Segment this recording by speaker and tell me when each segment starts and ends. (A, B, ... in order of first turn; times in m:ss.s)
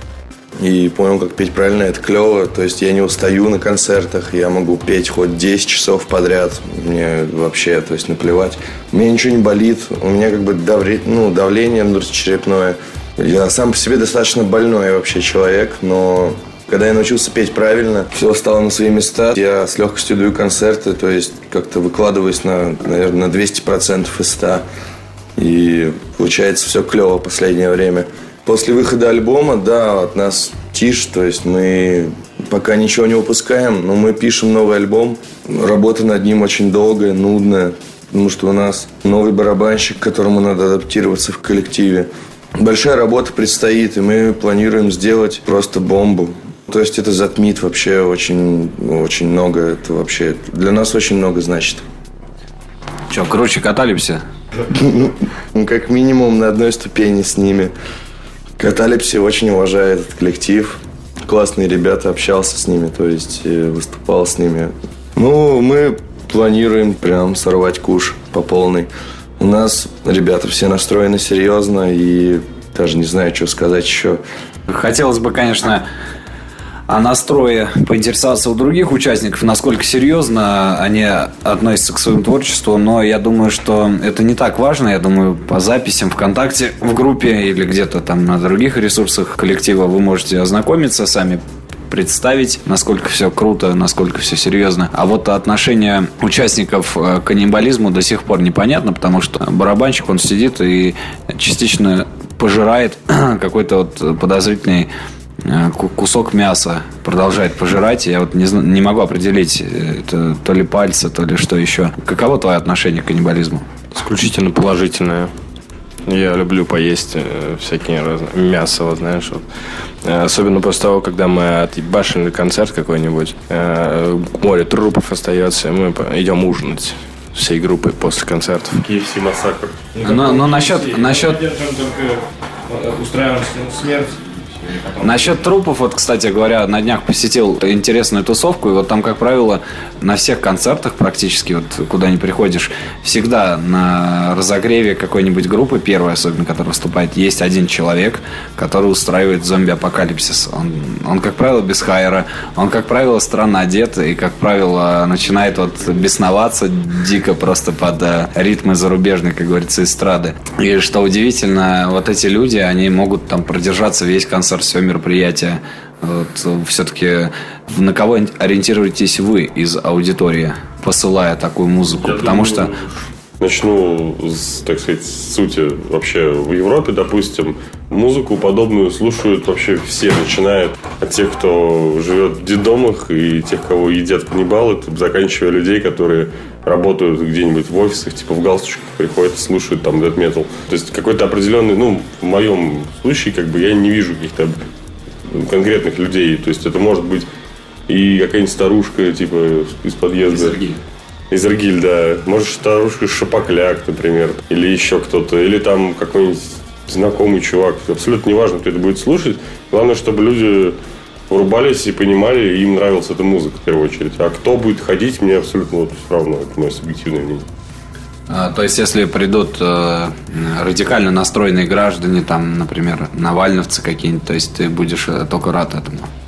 0:00.6-0:24.6 A
0:25.4-0:51.8 A
0:53.1-0:54.2 B
0:54.7-0:57.7 A
0:58.6-1:14.2 A
1:14.7-1:15.9 B
1:16.9-1:44.9 B
1:45.4-1:53.6 B
1:53.9-1:55.3 C
1:56.1-2:08.8 C
2:08.8-2:09.8 D
2:09.9-2:15.4 C
2:10.0-2:11.4 B
2:15.0-2:52.7 B
2:52.0-3:14.6 D
3:15.3-3:17.3 D
3:17.9-3:20.6 D
3:20.3-3:20.8 B
3:21.3-3:30.8 D
3:31.3-3:37.4 D
3:38.3-3:46.1 B